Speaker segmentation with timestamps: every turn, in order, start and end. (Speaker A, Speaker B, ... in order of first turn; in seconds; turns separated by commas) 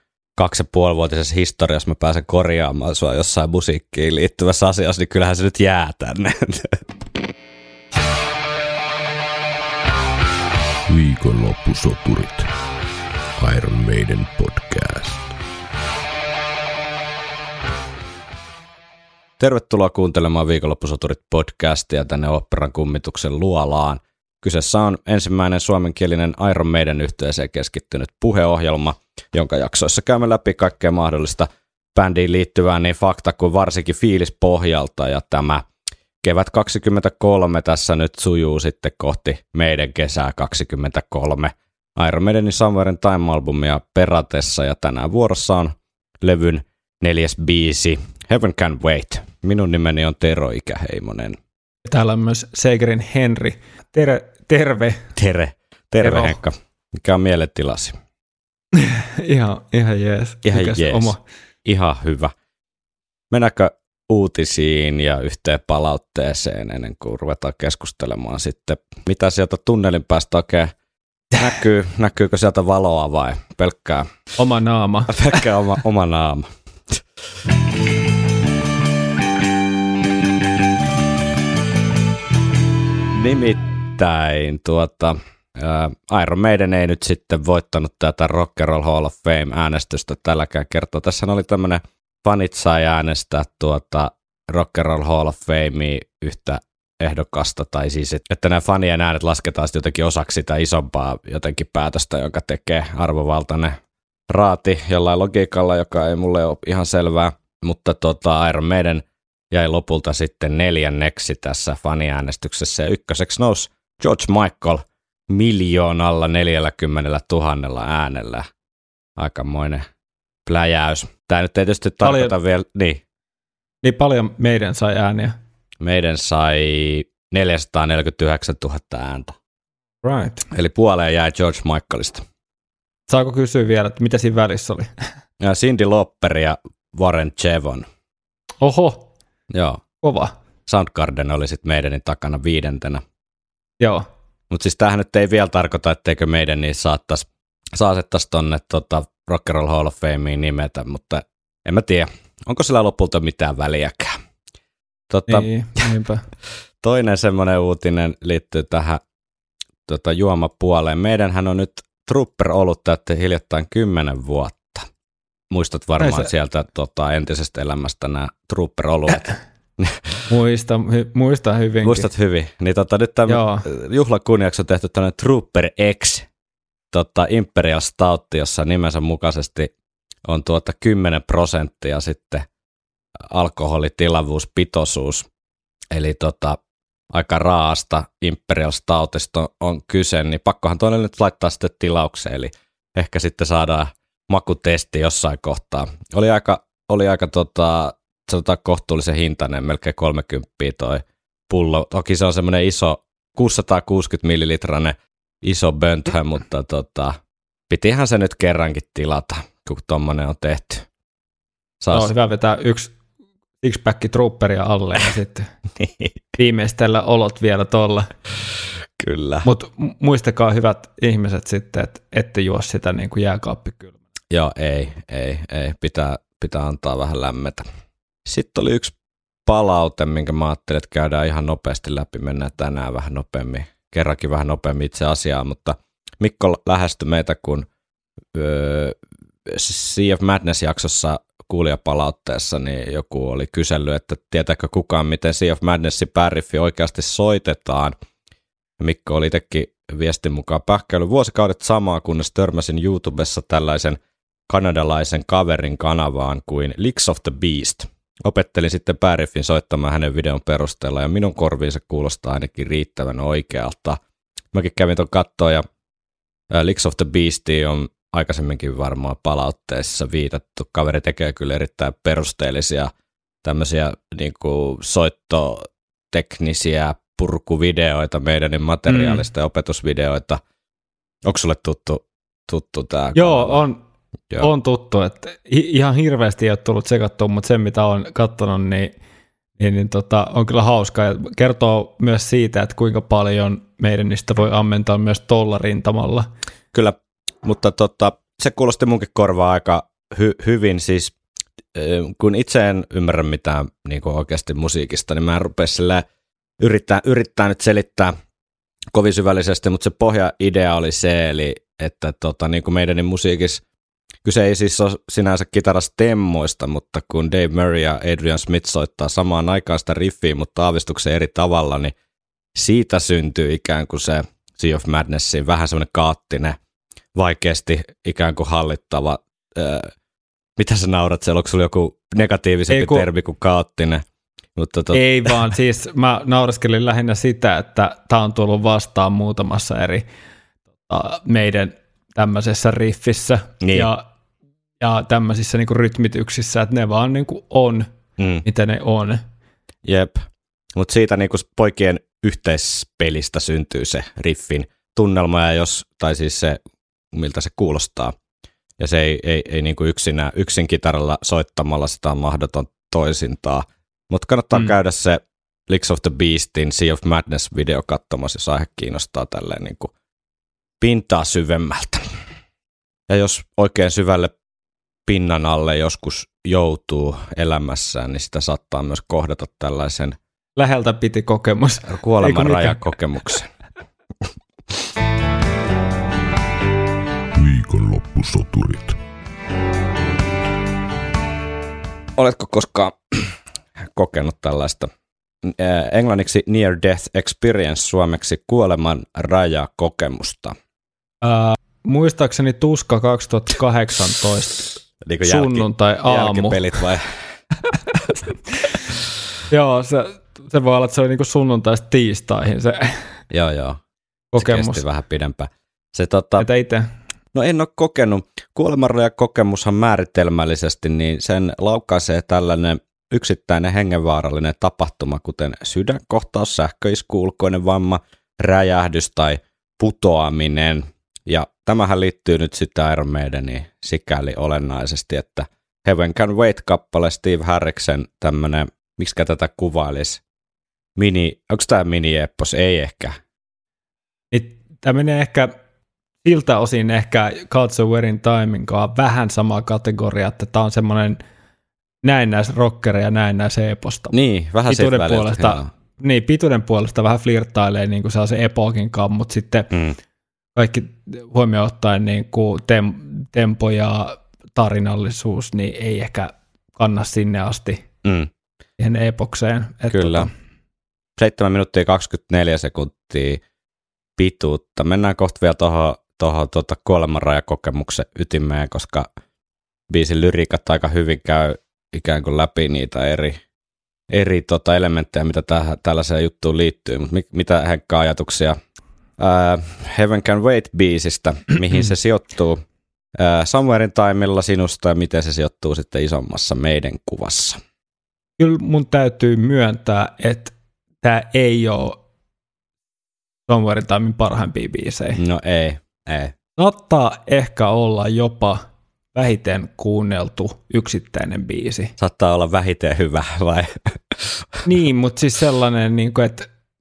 Speaker A: 0.4-6.8, Speaker B: 10.9-12.5, Speaker B: 13.4-15.3, Speaker A: 19.4-35.6, Speaker A: 36.2-51.4, Speaker C: 51.8-55.1, Speaker A: 55.1-58.0, Speaker C: 56.0-56.4, Speaker C: 58.7-61.2, Speaker A: 60.4-62.3, Speaker A: 63.3-70.7, Speaker A: 71.3-74.1, Speaker C: 74.4-75.4, Speaker A: 75.1-77.0, Speaker A: 83.1-103.8, Speaker A: 104.3-118.5, Speaker A: 119.2-119.8, Speaker A: 120.5-123.0, Speaker C: 122.0-122.3, Speaker C: 123.8-125.4, Speaker A: 125.8-129.3, Speaker C: 130.0-130.4, Speaker A: 130.5-132.2, Speaker C: 133.1-134.9, Speaker A: 135.4-137.8, Speaker C: 138.6-139.1, Speaker A: 139.5-139.8, Speaker C: 140.0-140.3, Speaker A: 140.7-143.0, Speaker C: 143.8-144.1, Speaker A: 144.5-154.2, Speaker A: 155.1-155.8, Speaker C: 155.3-156.2, Speaker A: 156.8-159.0, Speaker A: 159.8-164.9, Speaker A: 165.5-170.1, Speaker C: 166.0-166.3, Speaker C: 170.3-172.1, Speaker A: 171.8-176.2, Speaker C: 173.3-173.6, Speaker A: 176.9-179.7, Speaker A: 180.2-182.4, Speaker A: 183.3-185.3, Speaker A: 185.9-186.6, Speaker A: 187.1-207.2, Speaker A: 207.7-210.9, Speaker A: 211.8-212.1, Speaker C: 211.9-212.9, Speaker C: 213.6-215.5, Speaker A: 215.8-216.1, Speaker C: 216.3-218.1, Speaker A: 219.0-219.5, Speaker C: 219.4-223.9, Speaker A: 224.3-227.6, Speaker A: 228.2-228.9, Speaker A: 229.5-237.7, Speaker A: 238.3-247.9, Speaker A: 248.8-254.0, Speaker A: 254.5-264.0, Speaker A: 264.5-265.6, Speaker A: 266.5-272.9, Speaker A: 273.4-280.4, Speaker C: 278.9-279.2, Speaker A: 281.2-283.6, Speaker C: 283.1-283.8, Speaker C: 284.4-288.9, Speaker C: 289.6-296.3, Speaker A: 296.7-301.1, Speaker A: 301.7-306.0, Speaker A: 306.6-308.1, Speaker A: 308.9-313.6, Speaker A: 314.2-321.9, Speaker A: 322.6-326.6, Speaker A: 327.1-329.9, Speaker A: 330.6-334.0, Speaker C: 332.7-333.1, Speaker A: 334.6-335.5, Speaker C: 334.9-340.0, Speaker C: 340.9-344.0, Speaker A: 343.6-343.9, Speaker C: 344.8-347.9, Speaker A: 348.2-348.4, Speaker C: 348.4-349.2, Speaker A: 349.8-356.6, Speaker A: 357.1-358.1, Speaker A: 358.8-369.9, Speaker A: 370.8-372.1, Speaker A: 373.1-374.3, Speaker A: 375.1-380.2, Speaker C: 380.6-382.8, Speaker A: 381.9-383.5, Speaker B: 387.3-389.0, Speaker A: 392.2-393.3, Speaker A: 393.9-394.9, Speaker A: 395.4-400.6, Speaker C: 401.2-404.7, Speaker A: 405.0-407.1, Speaker C: 405.2-406.6, Speaker C: 409.5-413.1, Speaker A: 413.3-413.8, Speaker C: 414.3-414.8, Speaker A: 414.4-416.5, Speaker C: 416.4-416.9, Speaker A: 417.3-440.2, Speaker A: 441.0-443.1, Speaker C: 444.3-445.5, Speaker C: 446.2-451.2, Speaker C: 452.0-454.1, Speaker A: 454.1-455.7, Speaker C: 454.7-459.7, Speaker A: 459.7-460.0, Speaker C: 460.5-467.8, Speaker A: 468.0-468.3, Speaker C: 468.8-470.3, Speaker A: 469.9-470.3, Speaker A: 471.2-473.4, Speaker A: 474.2-479.1, Speaker A: 479.9-483.4, Speaker A: 484.1-488.6, Speaker A: 489.2-492.6, Speaker A: 493.2-497.6, Speaker C: 498.4-502.0, Speaker C: 503.5-505.2, Speaker A: 505.1-506.3, Speaker C: 506.6-508.6, Speaker C: 509.1-511.9, Speaker A: 512.0-514.1, Speaker C: 514.6-516.5